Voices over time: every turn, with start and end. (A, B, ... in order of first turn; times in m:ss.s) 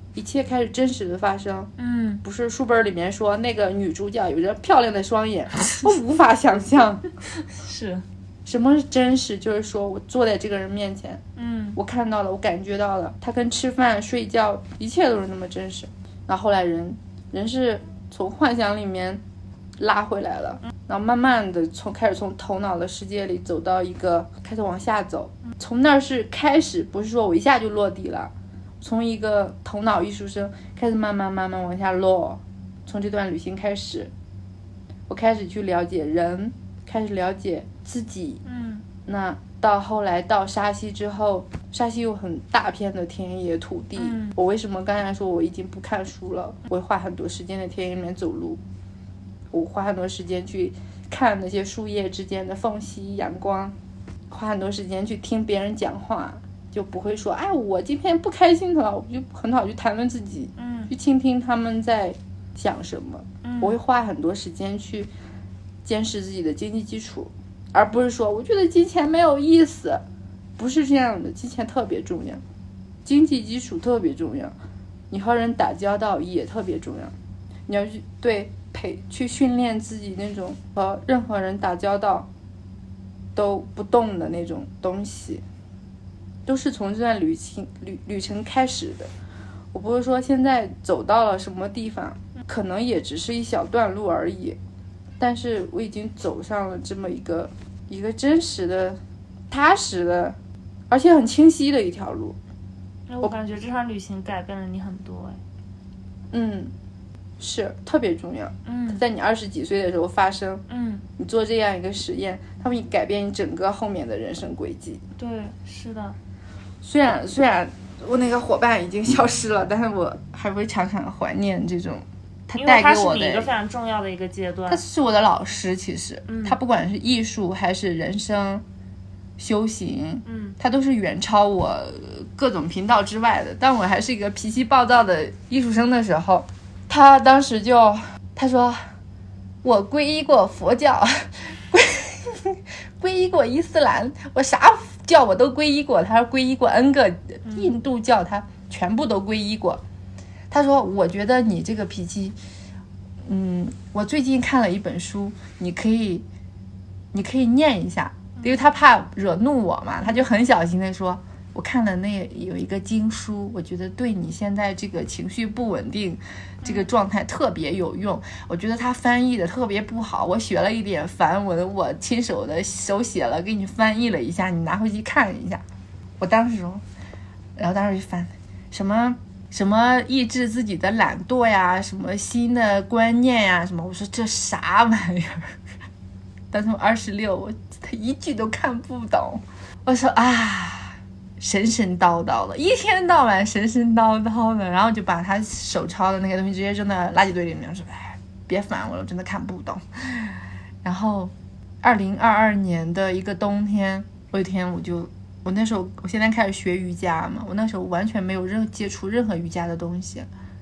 0:00.1-0:01.7 A
0:01.8-0:02.2 B
0:02.2-0:07.1 A
0:07.4-0:08.0 B
0:08.4-0:11.2 A
0:11.4-0:11.8 B
0:11.8-0:19.2 A
0:19.8-0:34.1 A
0:35.1-0:38.4 A
0:38.4-0:38.8 B
0:39.0-0:48.6 A
0:44.0-0:44.4 B
0:49.5-0:53.8 A
0:54.3-1:05.1 A
1:00.6-1:00.9 B
1:03.4-1:03.8 B
1:05.8-1:10.0 A
1:10.6-1:12.4 A
1:13.0-1:14.5 A
1:15.1-1:17.1 A
1:17.7-1:22.3 A
1:23.3-1:25.4 A
1:26.4-1:29.1 A
1:29.7-1:34.6 A
1:35.2-1:39.0 A
1:39.5-1:40.4 A
1:40.9-1:42.4 A
1:43.1-1:45.4 B
1:46.3-1:46.7 A
1:47.4-1:50.6 A
1:48.6-1:49.0 B
1:50.7-1:51.0 B
1:51.2-1:55.0 A
1:55.2-1:56.2 B
1:56.8-2:03.5 A
2:02.5-2:04.8 B
2:04.7-2:08.6 A
2:06.3-2:06.6 B
2:09.4-2:18.9 A
2:10.2-2:10.6 B
2:19.6-2:29.8 A
2:27.4-2:27.7 B
2:30.5-2:32.4 A
2:33.3-2:36.2 A
2:37.1-2:55.6 A
2:46.6-2:46.9 B
2:56.2-2:56.8 A
2:57.6-3:05.6 A
3:06.5-3:30.3 A